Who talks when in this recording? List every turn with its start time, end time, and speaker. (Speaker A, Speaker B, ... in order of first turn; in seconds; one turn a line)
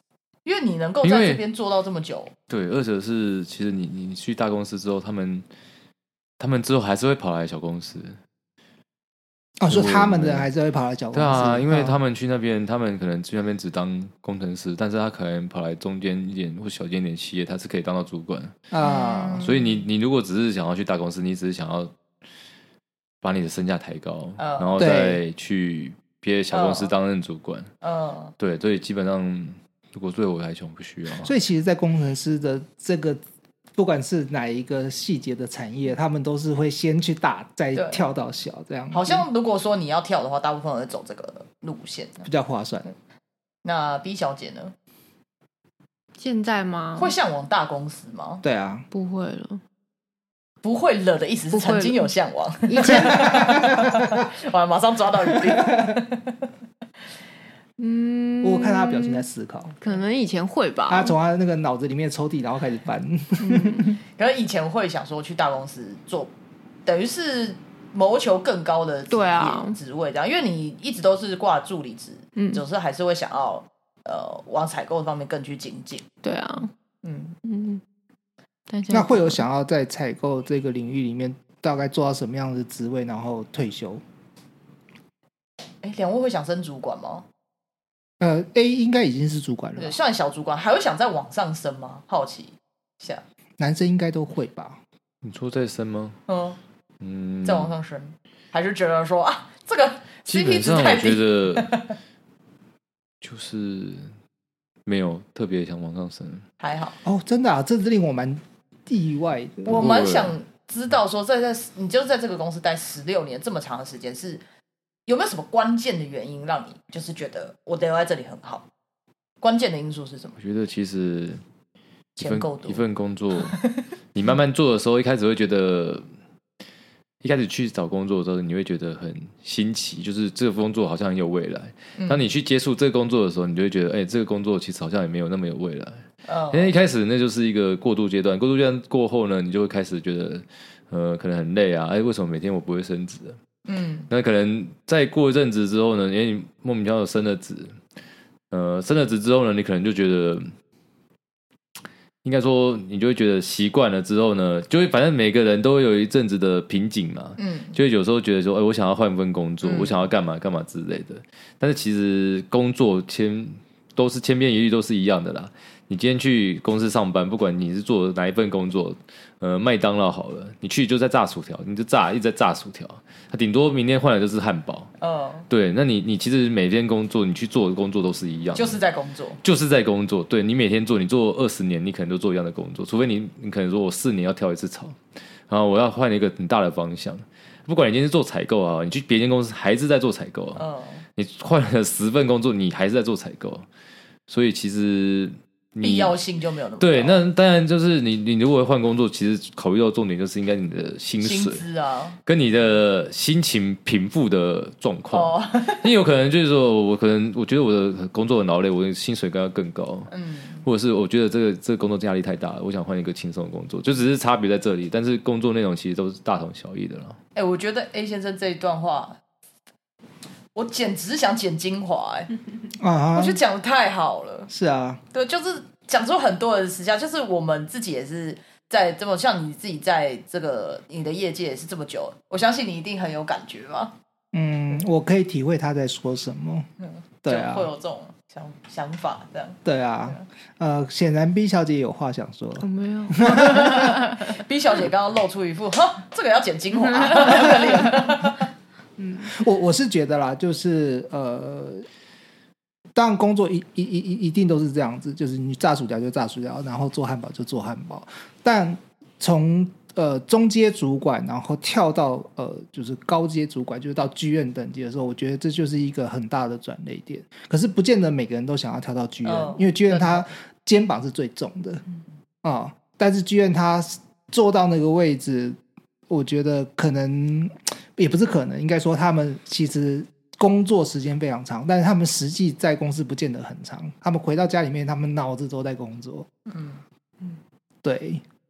Speaker A: 0.5-2.3
Speaker B: 1.0-1.4
Speaker B: 2.5-5.5
Speaker B: 6.4-8.2
Speaker C: 9.6-12.0
Speaker B: 9.7-10.5
Speaker B: 11.1-18.6
Speaker C: 18.7-19.5
Speaker A: 18.8-19.8
Speaker B: 19.4-21.9
Speaker B: 23.2-27.7
Speaker A: 24.4-24.9
Speaker C: 24.8-25.2
Speaker A: 26.5-26.9
Speaker A: 27.8-28.3
Speaker B: 28.4-31.3
Speaker C: 31.2-33.2
Speaker C: 33.8-39.3
Speaker A: 37.8-38.0
Speaker A: 38.9-42.2
Speaker C: 42.2-42.9
Speaker A: 43.6-44.7
Speaker D: 46.2-47.1
Speaker A: 47.0-48.4
Speaker C: 48.4-48.9
Speaker D: 48.9-49.6
Speaker A: 50.6-56.4
Speaker D: 51.5-52.1
Speaker D: 52.7-53.6
Speaker C: 52.9-54.2
Speaker C: 55.2-55.9
Speaker D: 57.8-59.3
Speaker C: 58.4-59.8
Speaker D: 59.8-61.1
Speaker C: 60.9-64.0
Speaker D: 63.4-63.9
Speaker A: 64.2-66.3
Speaker A: 66.8-76.1
Speaker D: 69.1-69.8
Speaker D: 72.3-72.6
Speaker D: 76.2-76.7
Speaker A: 77.0-77.4
Speaker D: 77.4-77.8
Speaker D: 78.7-79.4
Speaker C: 78.9-84.0
Speaker A: 85.8-87.2
Speaker C: 88.2-90.0
Speaker A: 89.8-93.2
Speaker C: 93.6-94.8
Speaker B: 95.2-96.2
Speaker A: 96.3-96.6
Speaker B: 97.0-97.7
Speaker A: 97.5-101.9
Speaker B: 100.3-101.7
Speaker B: 103.2-104.1
Speaker B: 104.9-106.5
Speaker A: 106.6-107.0
Speaker C: 107.0-110.3
Speaker A: 109.7-114.4
Speaker B: 109.7-110.3
Speaker A: 115.1-118.7
Speaker A: 119.4-120.4
Speaker B: 120.4-121.4
Speaker A: 122.2-122.8
Speaker B: 122.2-123.6
Speaker A: 123.4-123.8
Speaker B: 124.1-126.0
Speaker B: 127.2-143.4
Speaker A: 132.0-132.3
Speaker A: 136.3-136.7
Speaker A: 143.7-144.1
Speaker B: 144.1-147.8
Speaker B: 148.5-150.5
Speaker B: 152.2-174.9
Speaker A: 157.4-157.8
Speaker A: 159.6-160.0
Speaker A: 175.0-175.5
Speaker B: 175.5-178.8
Speaker A: 178.6-179.4
Speaker B: 179.4-190.7
Speaker A: 190.6-191.0
Speaker B: 191.2-193.7
Speaker B: 194.3-196.2
Speaker A: 195.8-197.2
Speaker B: 196.8-201.6
Speaker A: 201.2-202.2
Speaker B: 202.3-210.1
Speaker A: 205.1-205.9
Speaker A: 210.1-210.6
Speaker B: 210.7-217.2
Speaker A: 217.3-219.2
Speaker A: 220.6-222.3
Speaker C: 222.8-223.4
Speaker A: 223.1-224.5
Speaker C: 224.5-225.0
Speaker A: 225.1-233.9
Speaker C: 234.3-236.7
Speaker C: 237.2-237.7
Speaker A: 237.3-240.2
Speaker C: 239.7-244.0
Speaker D: 242.6-244.4
Speaker A: 243.3-248.5
Speaker D: 246.8-247.9
Speaker D: 249.0-249.3
Speaker C: 249.2-251.9
Speaker C: 252.9-271.8
Speaker A: 269.2-270.3
Speaker C: 272.4-275.6
Speaker C: 276.1-286.3
Speaker A: 286.5-286.8
Speaker C: 287.8-288.2